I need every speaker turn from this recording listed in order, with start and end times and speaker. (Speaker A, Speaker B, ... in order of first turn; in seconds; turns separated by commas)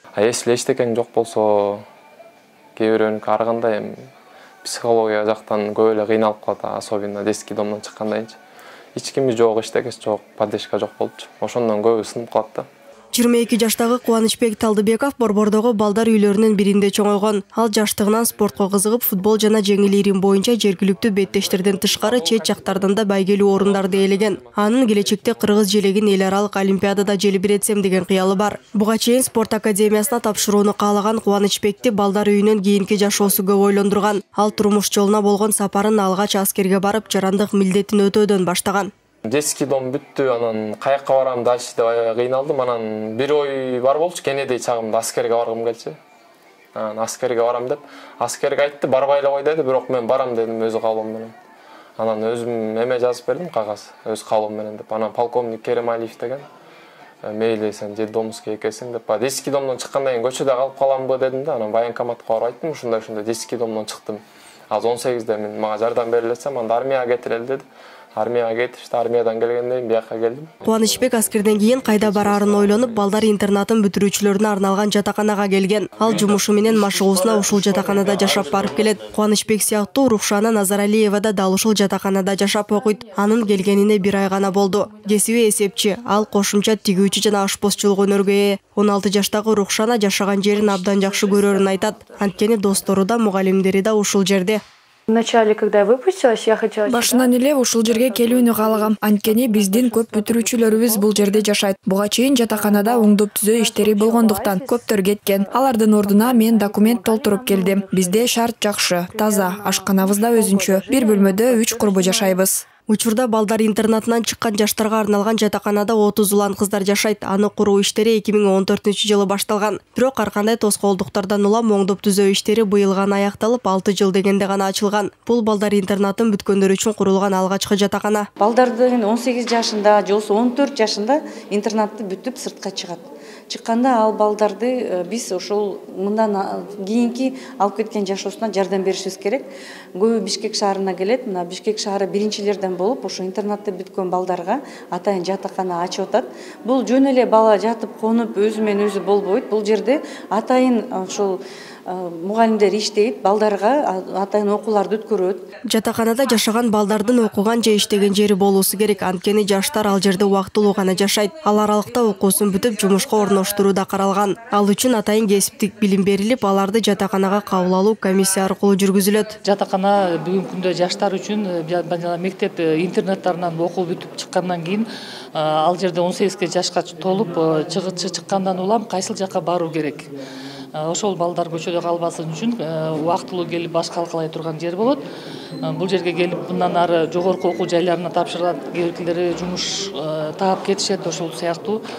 Speaker A: 0.2-1.9, Speaker A: 2.8-4.1, Speaker A: 4.6-8.4, Speaker A: 8.9-12.7, Speaker B: 13.1-38.9, Speaker A: 23.6-25.5, Speaker A: 39.3-46.0, Speaker A: 46.8-51.3, Speaker A: 52.0-56.5, Speaker A: 57.2-70.5, Speaker B: 70.7-94.6, Speaker C: 90.6-92.2, Speaker C: 95.1-101.5, Speaker D: 96.8-112.6, Speaker C: 102.5-108.4, Speaker C: 109.0-112.4, Speaker B: 112.9-128.3, Speaker E: 128.4-155.4, Speaker B: 155.7-169.4, Speaker F: 169.4-180.1, Speaker F: 180.8-185.0, Speaker F: 185.7-191.8